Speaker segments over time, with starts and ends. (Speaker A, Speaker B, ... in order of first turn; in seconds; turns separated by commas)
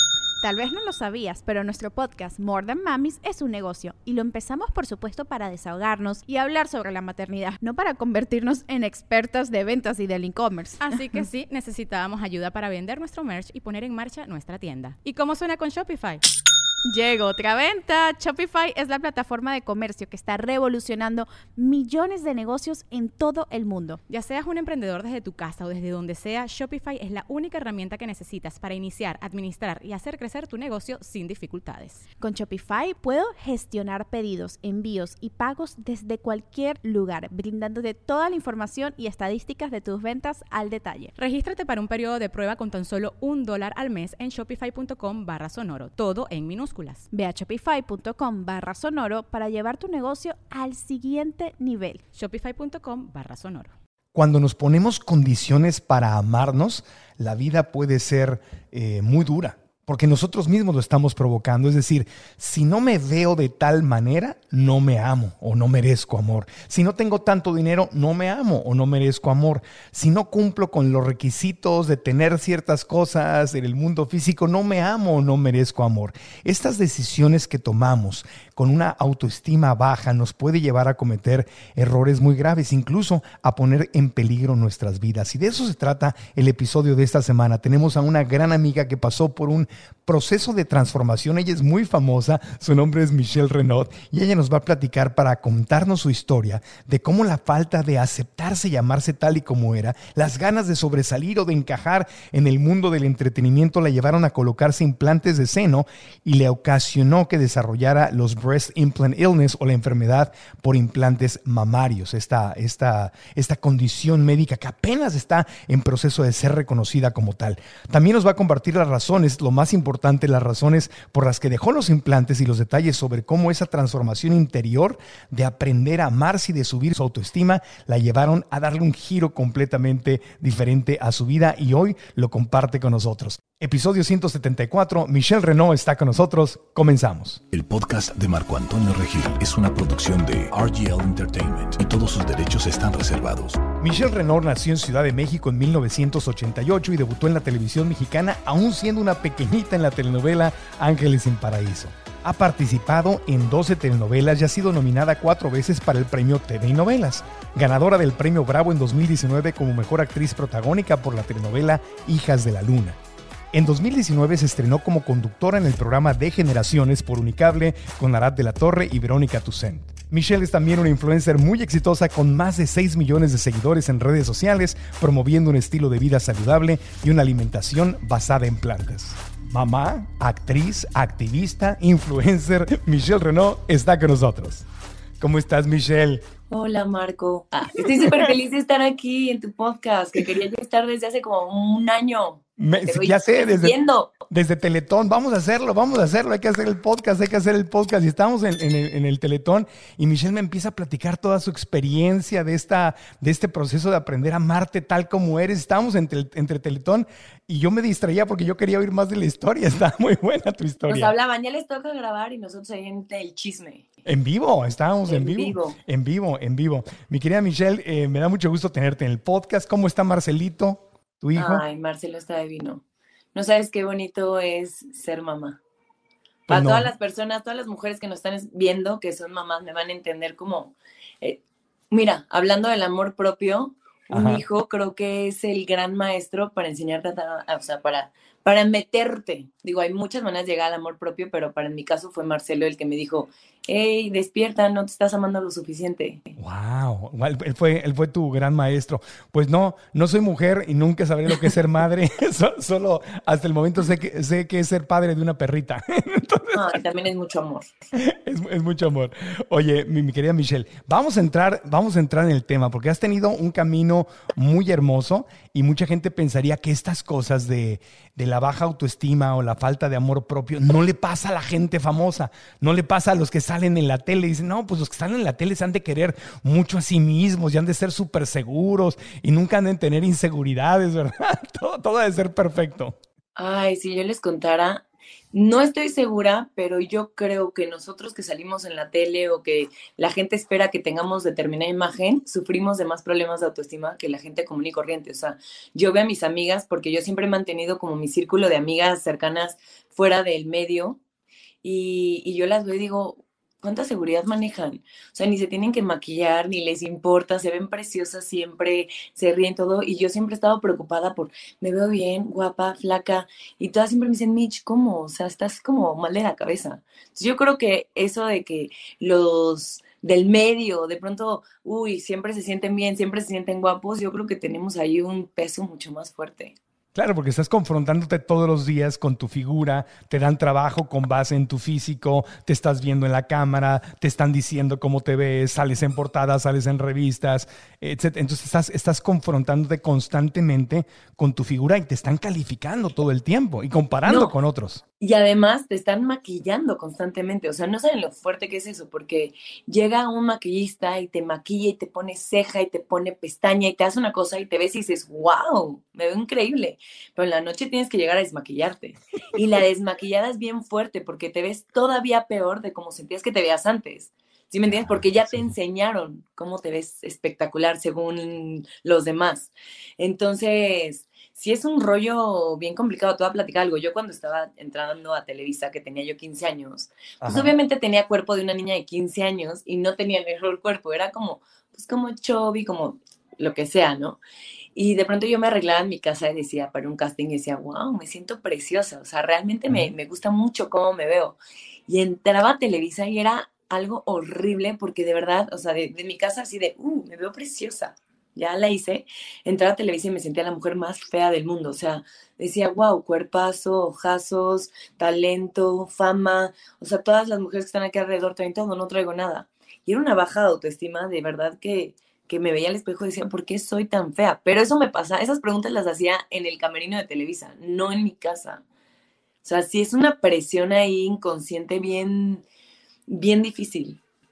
Speaker A: 0.4-11.1, Speaker B: 10.8-16.2, Speaker A: 16.9-24.0, Speaker B: 24.1-32.0, Speaker A: 32.2-41.1, Speaker B: 41.2-47.1, Speaker A: 47.1-52.0, Speaker B: 52.1-53.7, Speaker C: 54.1-137.4, Speaker D: 137.5-143.6, Speaker C: 143.8-163.0, Speaker C: 163.5-184.7, Speaker C: 185.2-186.3, Speaker E: 186.5-194.2, Speaker C: 187.8-188.3, Speaker C: 192.6-193.8, Speaker C: 194.3-211.1, Speaker E: 210.9-213.9, Speaker C: 214.1-221.6, Speaker E: 215.1-215.8, Speaker E: 221.4-222.8, Speaker E: 223.3-225.6, Speaker E: 226.5-231.4, Speaker C: 226.5-226.9, Speaker E: 231.9-246.3, Speaker C: 234.1-234.4, Speaker C: 246.4-256.8, Speaker E: 256.5-257.8, Speaker C: 257.9-283.0, Speaker E: 283.4-301.0, Speaker E: 301.6-326.6, Speaker C: 326.9-344.8, Speaker E: 344.1-344.3, Speaker E: 345.0-384.2, Speaker C: 364.7-365.5, Speaker C: 377.2-377.5, Speaker E: 384.8-391.4, Speaker E: 391.9-418.6, Speaker E: 419.4-422.4, Speaker E: 423.1-424.0